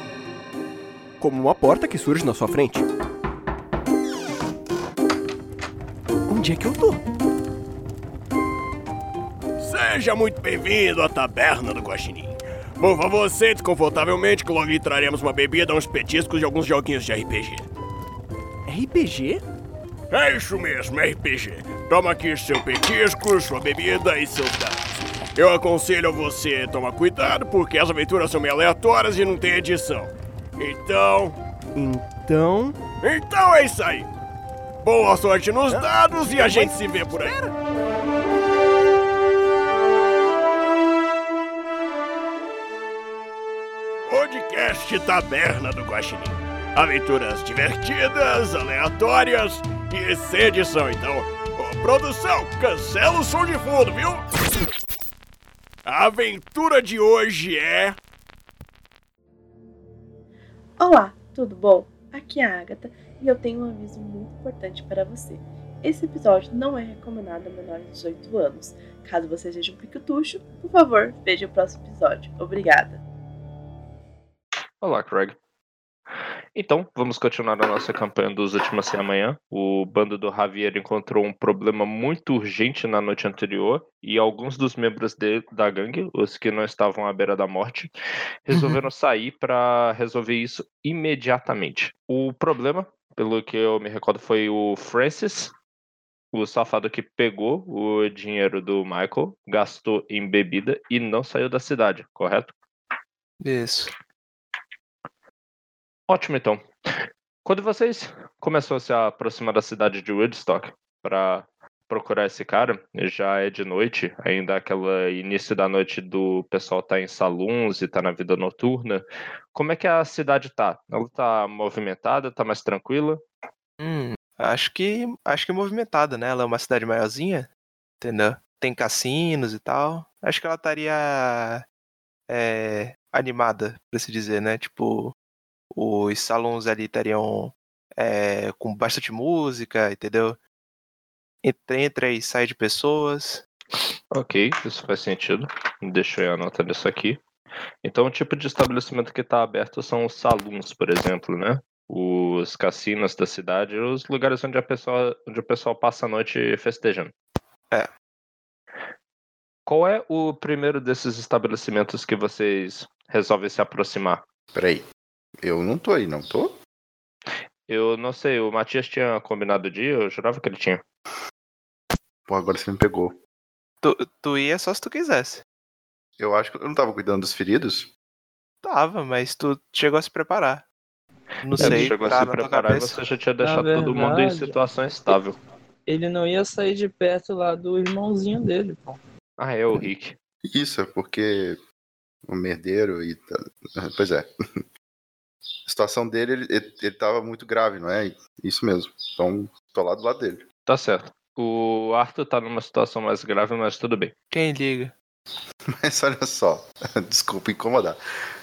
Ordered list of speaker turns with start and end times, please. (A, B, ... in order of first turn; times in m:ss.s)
0:01.3-0:02.6 A
0:06.3-0:07.0 A
0:09.6-0:17.7 B
0:18.7-0:19.4 A
0:20.1-0:31.4 B
0:31.8-0:32.8 A
0:33.0-0:34.1 B
0:34.8-0:37.4 B
0:35.7-0:37.5 A
0:44.1-0:54.3 B
0:55.8-0:58.0 B
1:00.8-1:13.0 C
1:14.8-1:15.4 D
1:16.6-1:27.9 D
1:28.4-1:35.5 D
1:36.3-1:42.5 D
1:43.4-1:43.9 E
1:46.1-1:46.6 D
1:47.4-1:59.0 D
1:59.5-2:03.2 D
2:03.8-2:07.5 E
2:08.0-2:11.6 E
2:12.3-2:15.2 E
2:15.7-2:20.4 E
2:21.4-2:23.4 E
2:24.1-2:27.2 D
2:27.8-2:37.1 D
2:39.7-2:44.2 D
2:44.5-2:44.8 F
2:45.4-2:46.6 F
2:47.7-2:50.8 D
2:52.3-2:53.2 F
2:53.8-2:55.4 E
2:56.2-2:57.9 F
2:58.6-3:00.7 E
3:01.4-3:03.0 E
3:01.6-3:05.4 D
3:03.4-3:04.5 G
3:05.9-3:09.0 G
3:09.4-3:10.2 D
3:10.4-3:11.6 F
3:12.2-3:14.6 F
3:15.7-3:20.4 F
3:20.7-3:24.1 D
3:24.3-3:24.9 E
3:25.8-3:28.0 F